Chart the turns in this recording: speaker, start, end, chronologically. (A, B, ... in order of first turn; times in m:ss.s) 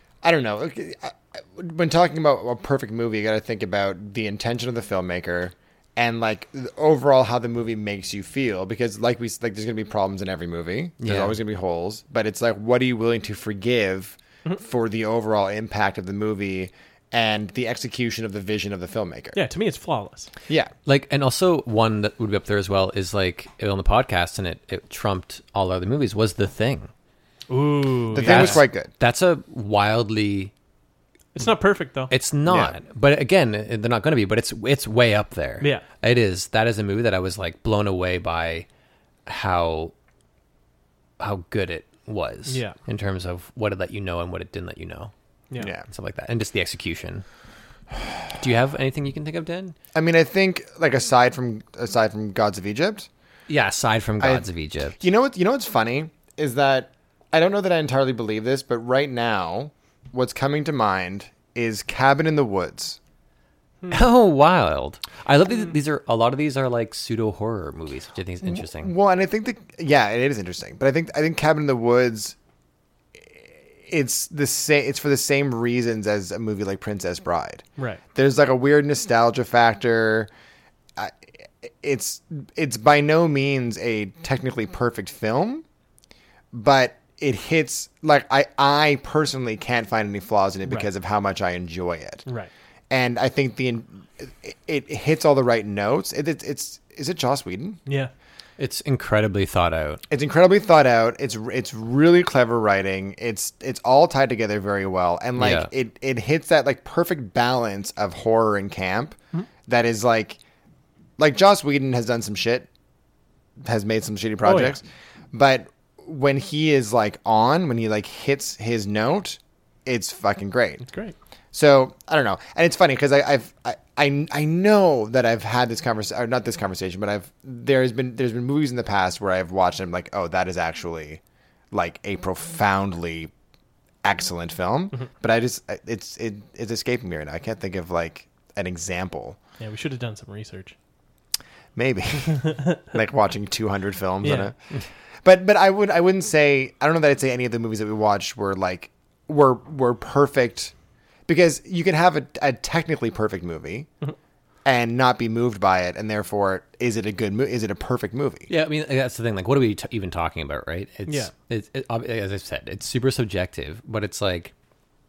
0:00.2-0:19.4 A
0:11.0-0:11.4 B
0:19.3-0:20.3 C
0:20.8-0:26.9 B
0:27.5-0:28.6 C
0:28.1-0:28.9 A
0:28.2-0:30.5 B
0:31.3-0:32.1 C
0:32.1-0:38.6 B
0:32.4-0:32.8 A
0:35.6-0:35.8 C
0:39.3-0:39.9 B
0:41.2-0:45.1 B
0:42.5-0:42.8 C
0:45.6-0:45.8 A
0:45.9-0:47.2 B
0:48.4-0:49.8 B
0:49.9-0:53.1 A
0:53.5-0:55.0 B
0:54.2-1:03.0 A
1:03.9-1:08.9 B
1:08.4-1:12.4 A
1:13.2-1:17.6 A
1:18.1-1:20.3 A
1:21.0-1:25.6 A
1:26.5-1:32.2 A
1:32.2-1:32.5 C
1:32.9-1:37.8 A
1:38.6-1:40.0 B
1:40.1-1:50.4 A
1:45.4-1:45.7 B
1:51.2-1:52.7 A
1:53.6-2:00.8 A
1:54.4-1:54.8 C
2:00.8-2:01.1 C
2:01.5-2:11.2 A
2:11.7-2:13.3 A
2:14.0-2:19.4 A
2:19.6-2:20.7 C
2:21.8-2:30.7 A
2:22.3-2:22.8 C
2:24.2-2:24.5 C
2:31.3-2:33.9 A
2:34.6-2:38.5 A
2:38.5-2:44.5 B
2:41.1-2:41.3 C